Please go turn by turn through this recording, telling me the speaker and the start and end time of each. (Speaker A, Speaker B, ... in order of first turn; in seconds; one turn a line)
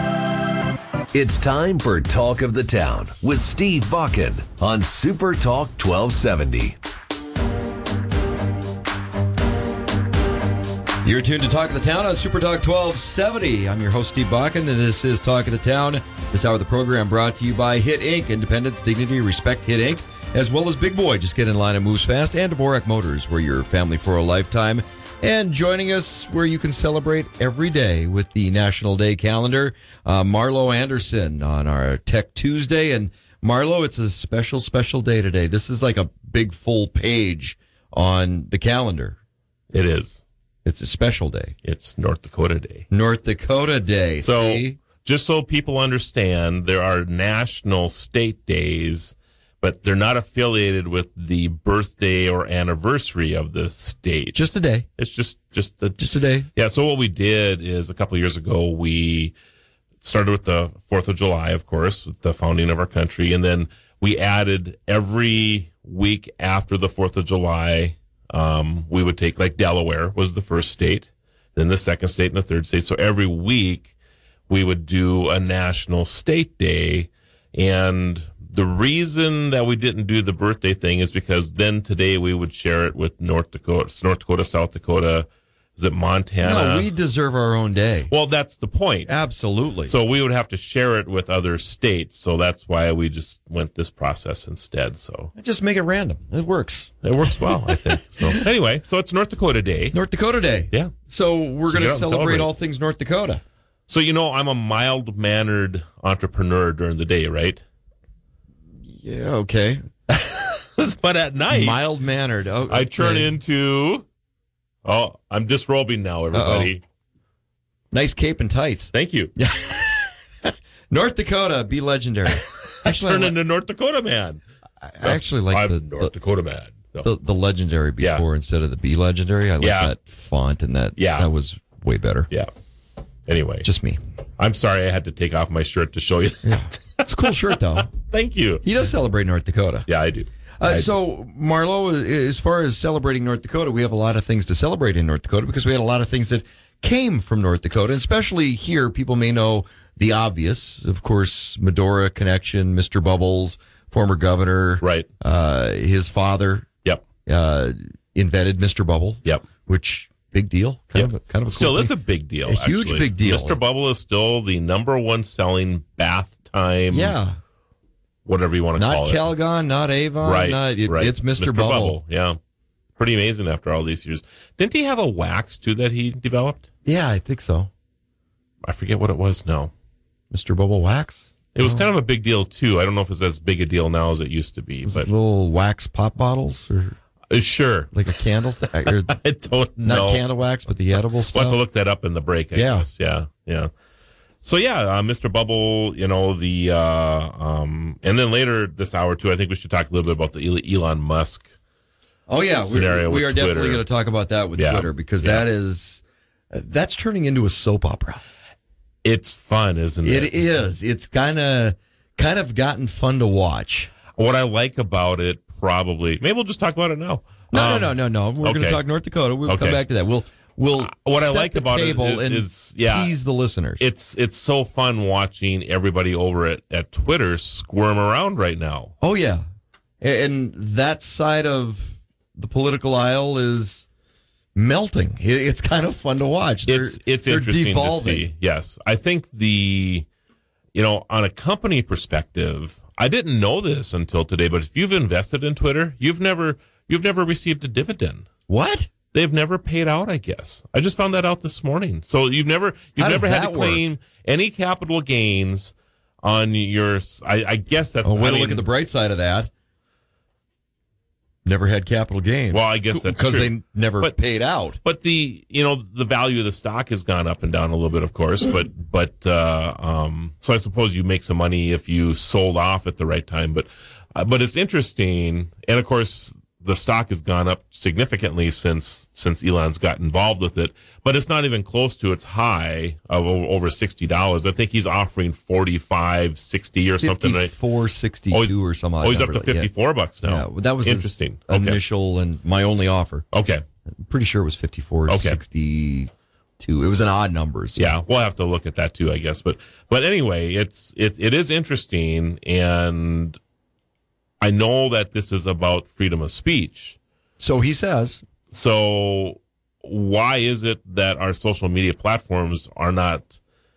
Speaker A: 1.1-6.8
Speaker B: 11.0-39.2
Speaker C: 39.7-40.2
Speaker B: 40.6-41.5
Speaker C: 41.6-42.9
Speaker B: 42.9-44.8
Speaker C: 44.2-54.4
Speaker B: 54.3-54.9
Speaker C: 55.0-59.3
Speaker B: 56.0-56.5
Speaker C: 60.0-73.9
Speaker C: 74.5-86.9
Speaker B: 86.4-88.1
Speaker C: 88.1-89.1
Speaker B: 89.1-89.9
Speaker C: 89.9-95.3
Speaker B: 95.4-98.4
Speaker C: 97.0-100.0
Speaker B: 99.9-103.4
Speaker C: 101.7-102.5
Speaker C: 103.9-107.6
Speaker B: 108.9-109.8
Speaker C: 110.1-111.8
Speaker B: 111.5-113.3
Speaker C: 112.7-114.1
Speaker C: 114.8-116.8
Speaker B: 116.3-116.7
Speaker B: 117.9-123.3
Speaker C: 118.9-119.3
Speaker C: 122.8-124.4
Speaker B: 124.8-126.1
Speaker C: 125.0-127.1
Speaker B: 127.0-132.3
Speaker C: 128.0-128.2
Speaker C: 129.6-129.9
Speaker C: 131.0-131.3
Speaker C: 133.3-133.7
Speaker B: 133.6-134.0
Speaker C: 134.4-138.7
Speaker B: 136.4-137.9
Speaker B: 138.6-139.9
Speaker C: 139.9-140.9
Speaker B: 140.6-156.7
Speaker C: 154.8-155.1
Speaker B: 157.3-161.9
Speaker C: 161.0-167.2
Speaker B: 162.5-163.6
Speaker B: 166.9-167.4
Speaker C: 168.3-169.3
Speaker B: 168.8-172.0
Speaker C: 170.2-172.4
Speaker C: 173.0-176.7
Speaker B: 176.9-177.7
Speaker C: 178.6-179.7
Speaker B: 180.3-181.9
Speaker C: 181.6-185.1
Speaker B: 184.9-187.0
Speaker C: 187.3-187.9
Speaker B: 187.9-189.2
Speaker C: 188.6-190.2
Speaker B: 189.8-191.6
Speaker C: 191.3-193.7
Speaker B: 192.5-192.9
Speaker C: 194.4-201.5
Speaker B: 202.3-208.2
Speaker C: 202.6-203.8
Speaker C: 204.6-205.4
Speaker C: 209.0-210.3
Speaker B: 210.0-213.9
Speaker C: 214.2-218.8
Speaker B: 217.5-223.9
Speaker C: 219.5-219.8
Speaker C: 220.8-223.1
Speaker C: 223.8-228.9
Speaker B: 229.0-229.4
Speaker B: 230.0-233.9
Speaker B: 234.6-238.3
Speaker C: 236.7-240.1
Speaker C: 240.7-248.3
Speaker B: 248.5-248.9
Speaker C: 249.1-258.6
Speaker B: 253.0-253.8
Speaker B: 258.0-259.5
Speaker B: 261.4-264.8
Speaker C: 262.5-264.1
Speaker C: 264.8-287.5
Speaker B: 287.0-289.7
Speaker C: 288.3-291.8
Speaker B: 290.2-293.3
Speaker C: 293.3-293.6
Speaker B: 293.9-297.9
Speaker C: 295.1-295.4
Speaker C: 297.8-303.4
Speaker C: 304.4-307.0
Speaker B: 307.4-308.2
Speaker C: 308.5-313.4